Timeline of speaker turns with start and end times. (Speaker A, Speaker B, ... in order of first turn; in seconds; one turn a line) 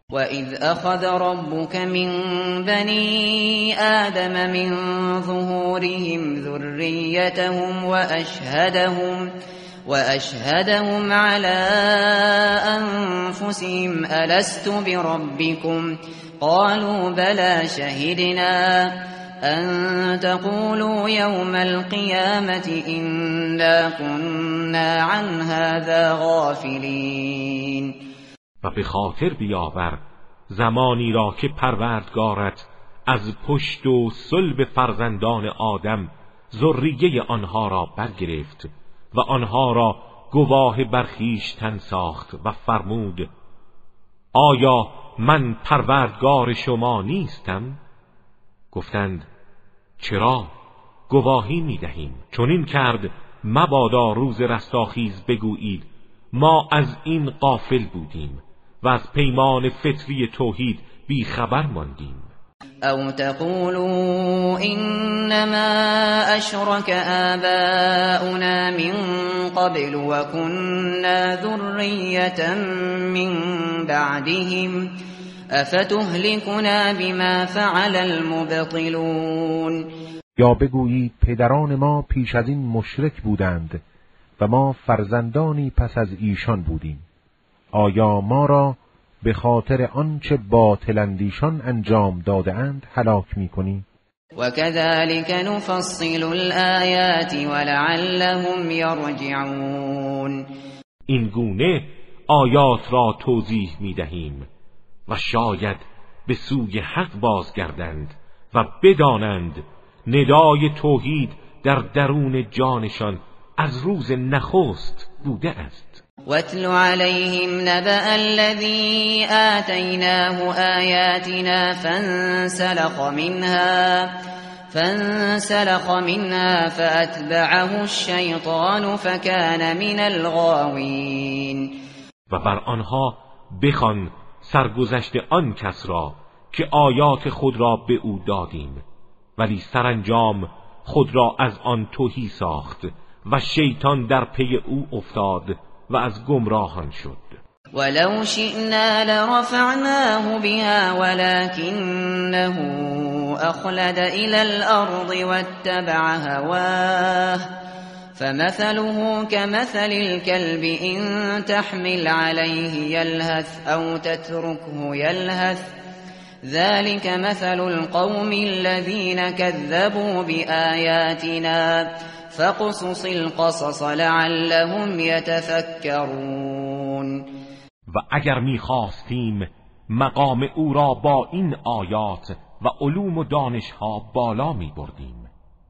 Speaker A: 0.1-9.3
Speaker A: 9.9-28.0
Speaker B: 28.6-43.3
Speaker B: 44.3-47.8
Speaker B: 48.7-49.3
Speaker B: 50.0-50.5
Speaker B: 51.1-62.3
Speaker A: 62.9-75.0
Speaker A: 75.5-79.9
Speaker C: 80.4-83.8
Speaker C: 84.4-87.0
Speaker C: 87.7-93.8
Speaker A: 94.4-100.5
Speaker B: 101.1-104.5
Speaker B: 105.1-116.0
Speaker A: 116.3-124.2
Speaker A: 124.7-131.8
Speaker B: 132.3-138.8
Speaker B: 139.4-147.4
Speaker A: 147.8-157.5
Speaker A: 158.2-165.7
Speaker A: 166.4-177.2
Speaker B: 177.9-185.3